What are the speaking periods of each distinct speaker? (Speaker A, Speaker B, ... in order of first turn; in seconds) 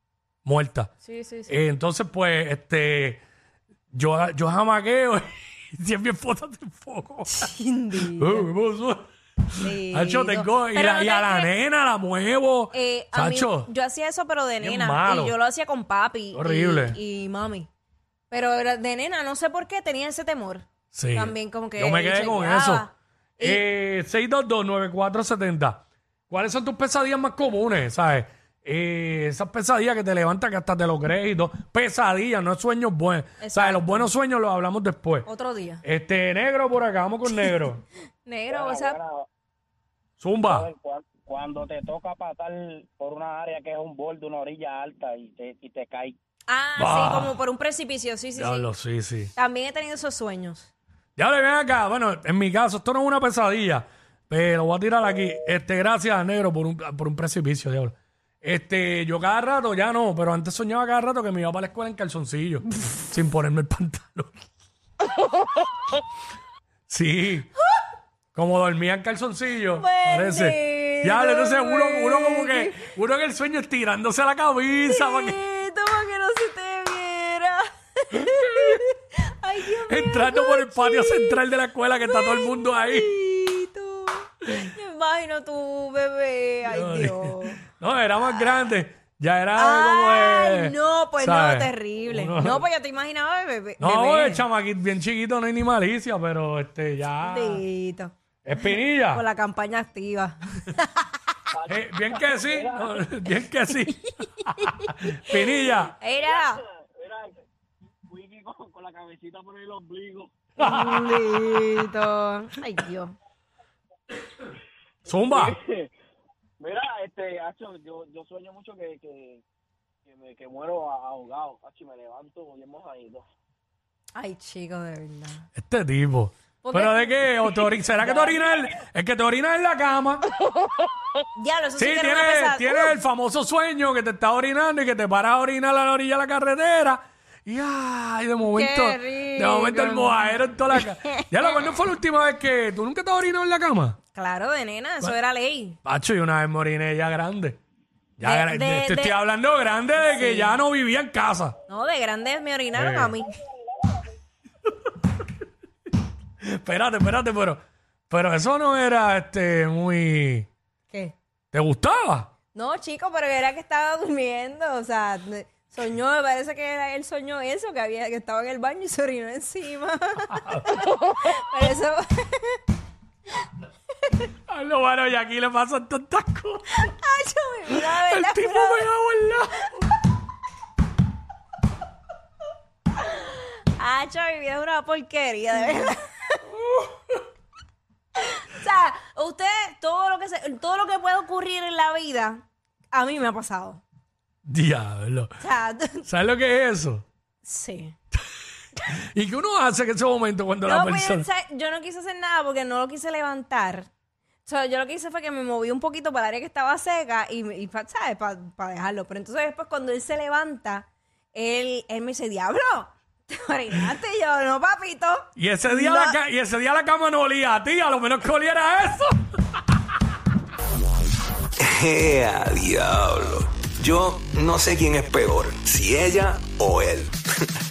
Speaker A: 0.4-0.9, 1.5-3.2, 3.9-13.7, 14.6-15.4, 16.3-17.0, 20.9-22.9, 23.4-35.3, 35.8-37.8, 40.2-40.7, 46.8-47.4, 48.4-49.3, 51.2-64.3, 66.9-67.5, 68.3-75.4, 78.1-78.8, 79.8-83.1, 86.7-92.6, 93.8-97.6, 98.4-99.2, 101.7-104.1, 104.9-105.9, 110.6-111.4, 115.1-115.5, 125.5-130.2, 131.8-144.0, 145.8-147.6, 148.2-151.5, 152.7-153.1, 156.4-160.5, 161.5-162.3, 170.3-170.7, 174.5-176.9, 177.7-179.7, 194.4-195.3, 196.0-197.0, 198.9-201.3, 215.3-219.1
Speaker B: 1.0-1.5, 7.3-8.5, 9.6-11.5, 12.7-17.7, 18.3-23.6, 33.4-34.1, 35.2-35.8, 38.2-39.0, 46.5-48.7, 49.3-50.7, 69.7-72.9, 74.8-81.4, 82.0-87.6, 89.5-94.4, 97.2-98.1, 99.0-101.1, 104.2-106.6, 110.6-113.1, 124.1-125.5, 126.6-127.7, 131.3-132.9, 138.4-141.7, 144.1-145.8, 148.2-149.2, 150.1-150.6, 151.7-153.4, 160.9-161.1, 162.5-172.6, 174.0-174.3, 176.8-178.9, 183.0-186.4, 188.2-193.8, 195.4-196.1, 197.4-197.9, 200.6-203.9, 204.4-216.2
Speaker C: 38.5-39.2, 40.4-46.2, 101.5-103.0, 106.2-107.4, 108.1-110.3, 115.1-115.9, 116.6-119.4, 120.0-123.2
Speaker D: 221.6-227.2